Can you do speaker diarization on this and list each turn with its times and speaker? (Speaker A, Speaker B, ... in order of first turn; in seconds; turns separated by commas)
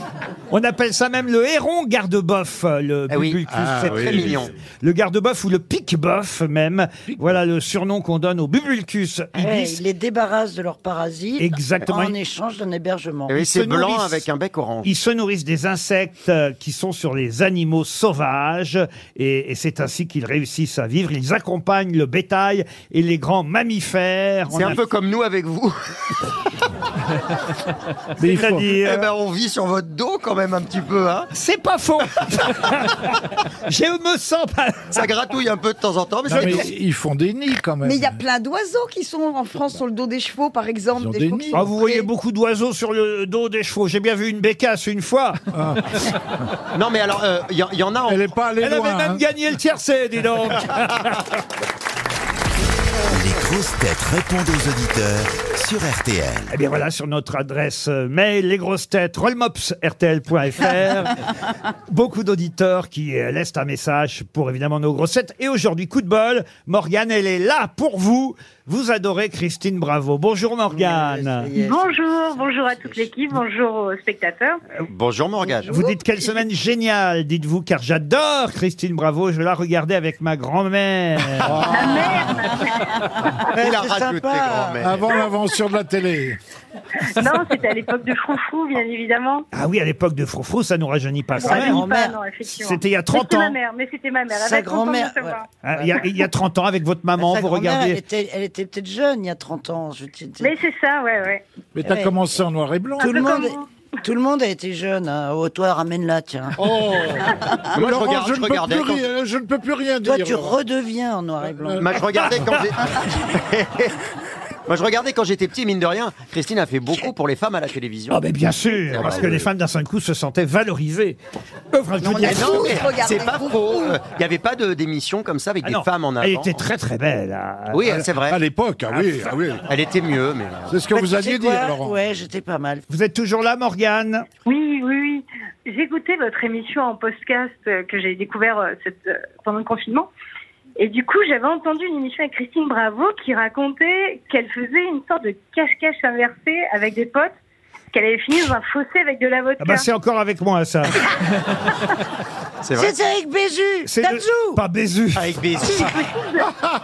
Speaker A: 0.5-9.8, Speaker B: 3.1-4.5, Speaker C: 3.5-4.5, Speaker C: 7.1-7.4, Speaker D: 9.4-13.4, Speaker A: 11.4-12.2, Speaker B: 13.3-14.9, Speaker A: 13.3-14.2, Speaker A: 14.8-24.8, Speaker B: 24.5-25.8, Speaker C: 28.2-28.7, Speaker A: 28.2-29.1, Speaker B: 28.7-31.3, Speaker A: 31.3-35.0, Speaker B: 34.9-36.7, Speaker C: 36.3-38.2, Speaker A: 36.4-36.6, Speaker E: 37.8-42.1, Speaker C: 40.9-41.7, Speaker A: 41.5-45.4, Speaker C: 45.5-46.1, Speaker B: 46.7-48.2, Speaker C: 48.1-49.2, Speaker A: 48.6-51.3, Speaker F: 53.1-56.5, Speaker A: 56.5-61.3, Speaker A: 61.9-71.5, Speaker D: 70.8-71.7, Speaker G: 71.5-74.6, Speaker B: 74.9-75.7, Speaker E: 75.6-76.4, Speaker A: 75.7-81.6, Speaker C: 81.4-82.5, Speaker G: 81.7-83.4, Speaker D: 83.5-84.9, Speaker B: 83.5-85.0, Speaker C: 84.8-86.4, Speaker G: 87.0-89.5, Speaker A: 89.5-91.8, Speaker D: 91.4-92.2, Speaker G: 91.4-95.4, Speaker A: 92.5-93.5, Speaker D: 94.3-96.0, Speaker A: 95.6-98.0, Speaker D: 97.2-100.5, Speaker G: 100.4-101.4, Speaker C: 101.8-103.5, Speaker D: 101.8-102.1, Speaker D: 103.0-106.6, Speaker G: 103.0-103.7, Speaker C: 106.6-110.6, Speaker B: 107.7-109.0, Speaker D: 110.0-111.9, Speaker C: 111.4-112.3, Speaker B: 111.8-113.9, Speaker B: 114.7-118.2, Speaker A: 118.1-121.2, Speaker B: 118.9-119.4, Speaker C: 119.0-119.4, Speaker A: 121.7-122.8, Speaker E: 122.0-124.0, Speaker B: 122.2-126.6, Speaker A: 125.6-128.0, Speaker B: 127.7-128.4, Speaker C: 127.9-129.7, Speaker A: 128.9-129.3, Speaker B: 129.7-130.8, Speaker C: 130.7-132.0, Speaker D: 130.9-132.9, Speaker A: 132.9-134.2, Speaker G: 134.4-140.1, Speaker G: 140.8-147.3, Speaker G: 147.9-149.9, Speaker A: 149.6-151.0, Speaker B: 152.6-153.0, Speaker D: 152.8-154.6, Speaker A: 153.8-155.4, Speaker B: 155.1-155.9, Speaker D: 155.6-156.2, Speaker G: 156.0-156.5